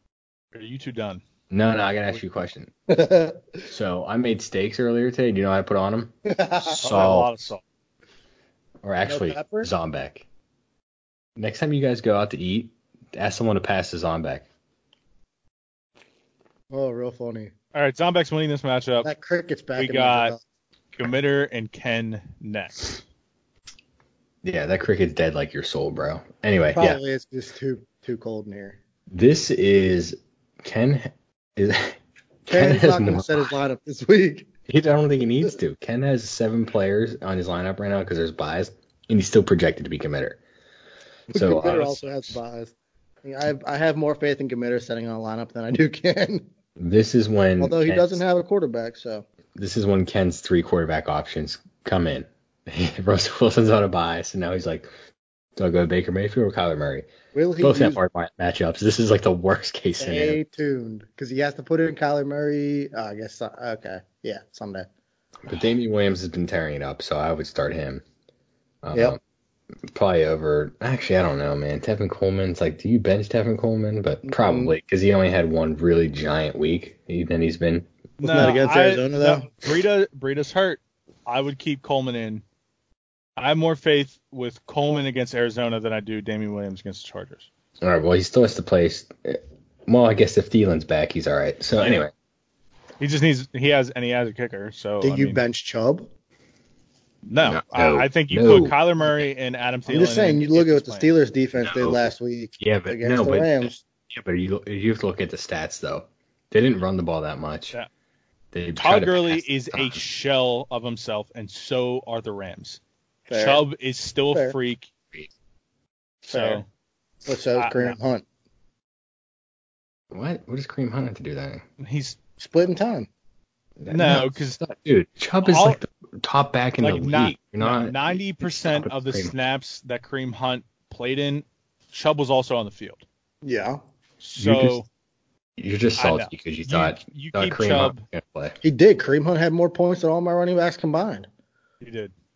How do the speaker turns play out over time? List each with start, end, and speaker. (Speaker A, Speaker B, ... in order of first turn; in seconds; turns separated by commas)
Speaker A: 0.5-1.2, Speaker B: 1.5-2.7, Speaker C: 2.9-3.7, Speaker B: 3.7-7.3, Speaker C: 6.3-6.8, Speaker A: 6.8-7.6, Speaker B: 8.8-10.2, Speaker C: 9.1-9.7, Speaker B: 11.4-14.4, Speaker C: 16.7-17.5, Speaker A: 17.7-19.1, Speaker C: 19.0-20.4, Speaker A: 19.8-20.3, Speaker A: 20.9-22.9, Speaker B: 24.4-27.0, Speaker C: 26.7-28.8, Speaker B: 29.1-33.5, Speaker C: 32.5-34.5, Speaker B: 34.7-40.4, Speaker B: 41.3-42.0, Speaker C: 41.3-46.5, Speaker B: 46.8-48.2, Speaker C: 47.6-49.2, Speaker B: 49.5-54.9, Speaker B: 55.5-57.1, Speaker C: 57.3-58.0, Speaker B: 57.6-60.4, Speaker C: 60.0-64.9, Speaker B: 65.5-68.0, Speaker B: 68.8-69.2, Speaker B: 69.9-78.5, Speaker C: 74.2-74.7, Speaker A: 78.2-82.4, Speaker C: 78.2-79.5, Speaker A: 83.4-87.5, Speaker B: 87.8-92.1, Speaker A: 91.8-92.0, Speaker A: 93.0-95.4, Speaker C: 95.0-96.1, Speaker A: 97.2-101.1, Speaker B: 97.4-99.2, Speaker C: 99.9-103.8, Speaker B: 101.6-107.8, Speaker B: 108.5-110.0, Speaker A: 108.8-112.8, Speaker C: 113.3-113.6, Speaker A: 113.3-114.9, Speaker A: 116.2-116.7, Speaker C: 116.3-116.6, Speaker C: 117.2-118.2, Speaker A: 117.5-118.0, Speaker B: 120.1-121.6, Speaker A: 121.8-122.2, Speaker C: 122.4-123.1, Speaker B: 123.8-129.3, Speaker A: 123.9-124.6, Speaker A: 125.4-125.8, Speaker A: 126.8-133.0, Speaker C: 133.4-133.8, Speaker A: 134.2-134.8, Speaker B: 134.4-134.8, Speaker B: 135.6-138.6, Speaker A: 136.0-138.0, Speaker C: 138.6-141.3, Speaker A: 141.8-142.1